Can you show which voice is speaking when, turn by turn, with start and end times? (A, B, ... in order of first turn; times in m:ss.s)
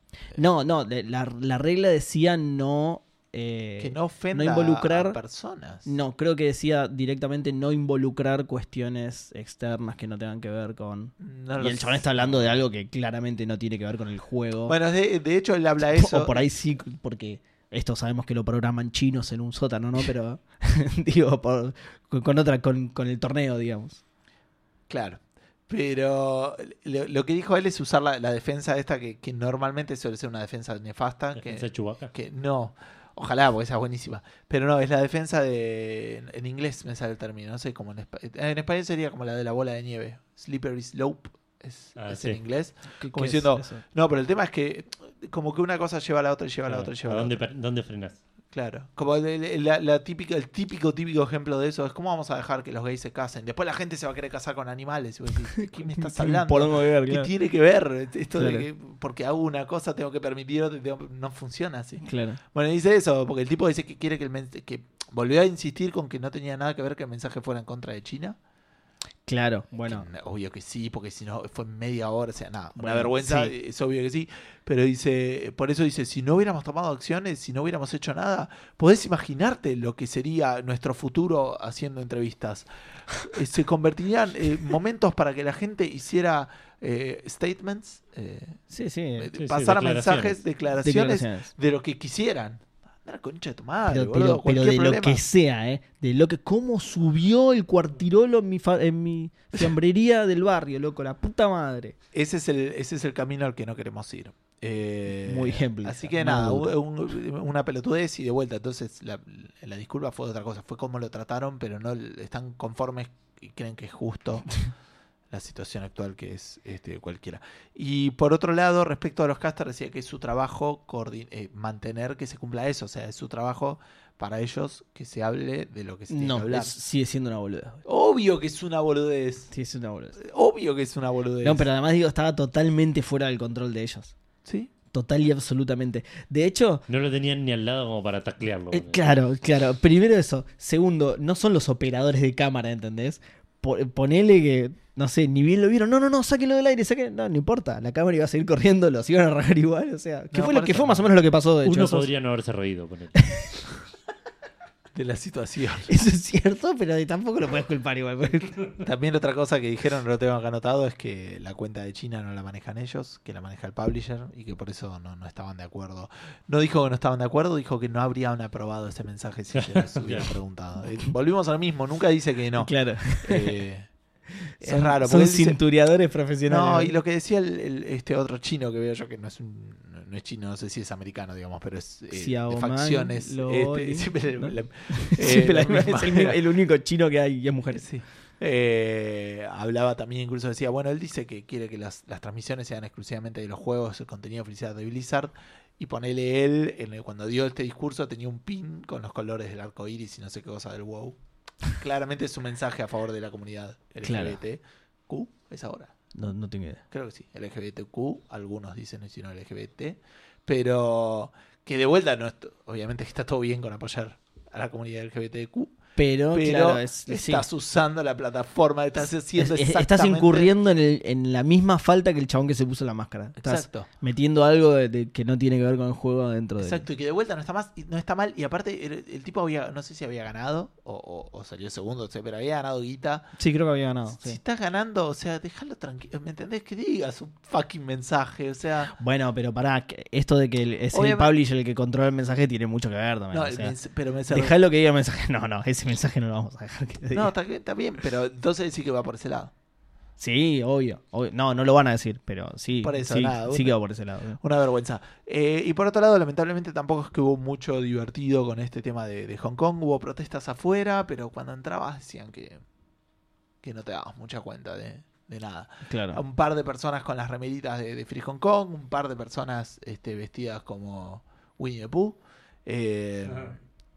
0:00.4-0:05.2 A
0:03.8-0:05.9 B
0:05.8-0:14.7 A
0:11.2-0:12.6 B
0:14.7-0:16.4 B
0:15.9-0:24.0 A
0:24.9-0:47.4 B
0:31.4-0:32.1 C
0:42.0-0:42.4 C
0:43.0-0:43.8 A
0:46.7-0:48.2 C
0:48.5-1:08.4 B
0:56.0-0:57.3 A
0:58.3-0:58.7 A
1:02.0-1:02.4 A
1:09.3-1:10.1 A
1:09.8-1:28.6 B
1:12.8-1:13.5 A
1:28.7-1:29.3 A
1:29.2-1:35.2 B
1:29.4-1:30.4 C
1:30.8-1:31.5 A
1:33.9-1:42.0 A
1:42.1-1:54.5 B
1:45.2-1:46.7 A
1:55.3-2:06.8 B
2:06.1-2:07.8 A
2:07.8-2:09.5 B
2:09.5-2:10.2 A
2:10.2-2:11.7 B
2:11.4-2:14.1 A
2:14.4-2:14.7 B
2:14.9-2:16.8 A
2:16.9-2:19.1 C
2:18.7-2:32.1 A
2:30.3-2:31.1 B
2:31.6-2:33.3 C
2:33.2-2:33.4 A
2:34.9-2:35.9 B
2:35.9-2:38.7 A
2:38.8-2:53.9 B
2:49.6-2:50.3 C
2:52.6-2:53.6 A
2:54.5-2:56.9 A
2:54.6-2:55.6 B
2:56.5-3:06.4 B
3:02.1-3:07.8 A
3:07.7-3:21.2 B
3:21.7-3:25.9 B
3:24.0-3:24.4 A
3:26.2-3:26.8 A
3:26.9-3:35.8 B
3:36.0-3:37.4 A
3:36.3-3:40.5 B
3:39.4-3:46.8 A
3:43.4-3:43.9 B
3:46.6-3:53.3 B
3:53.4-3:54.4 A
3:54.1-3:58.9 B
3:59.0-4:03.7 A
4:00.9-4:01.3 B
4:03.3-4:04.6 B
4:04.3-4:07.3 A
4:07.1-4:09.5 B
4:10.2-4:14.4 A
4:12.8-4:13.8 B
4:14.4-4:22.6 B
4:23.6-4:33.6 B
4:25.9-4:26.2 A